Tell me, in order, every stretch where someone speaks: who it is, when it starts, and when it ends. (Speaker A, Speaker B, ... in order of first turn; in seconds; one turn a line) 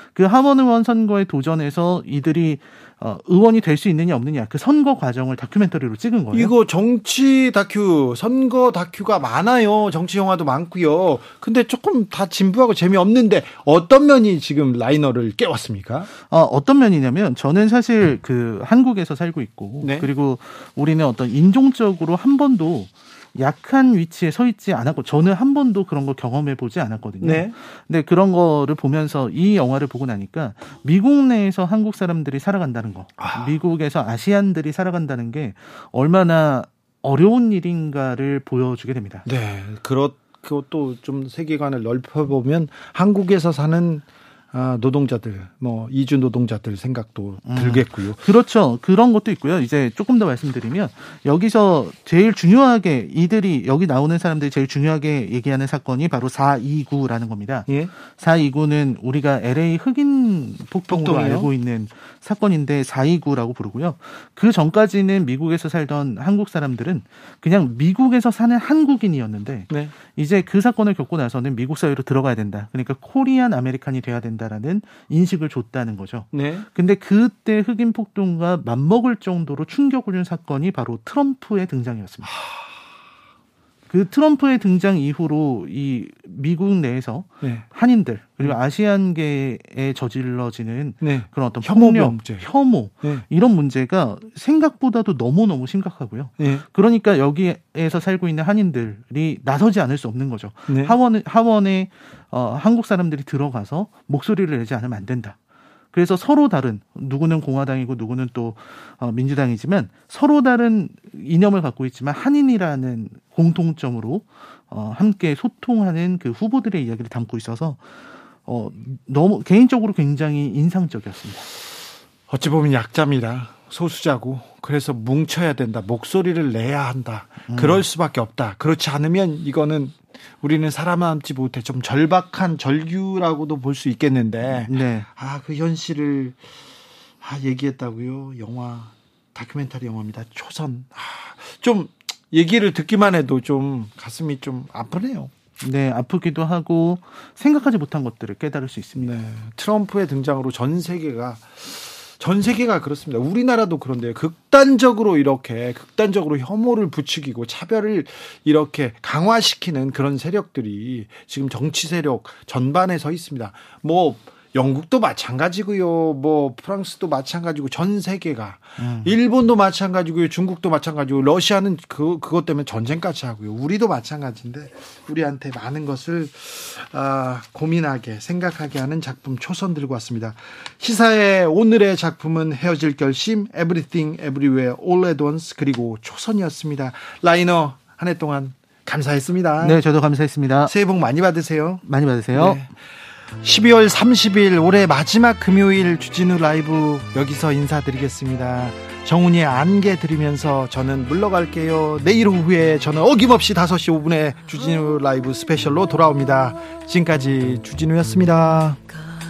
Speaker A: 0.1-6.5
Speaker B: 6.3-16.1
Speaker A: 16.2-39.2
Speaker B: 19.8-20.1
Speaker B: 27.2-27.5
Speaker B: 33.2-33.5
Speaker B: 39.2-48.2
Speaker A: 47.5-82.3
Speaker B: 60.9-61.5
Speaker B: 76.3-76.7
Speaker B: 82.3-82.5
Speaker A: 83.9-105.4
Speaker B: 91.0-92.5
Speaker B: 96.4-96.6
Speaker B: 100.7-100.9
Speaker A: 105.9-117.8
Speaker A: 118.4-121.5
Speaker B: 122.3-136.4
Speaker A: 127.5-127.8
Speaker A: 134.5-135.1
Speaker B: 137.2-145.3
Speaker A: 145.6-149.1
Speaker B: 148.9-189.8
Speaker A: 168.8-169.1
Speaker A: 189.6-190.7
Speaker B: 190.7-192.7
Speaker A: 191.8-192.6
Speaker B: 193.4-208.8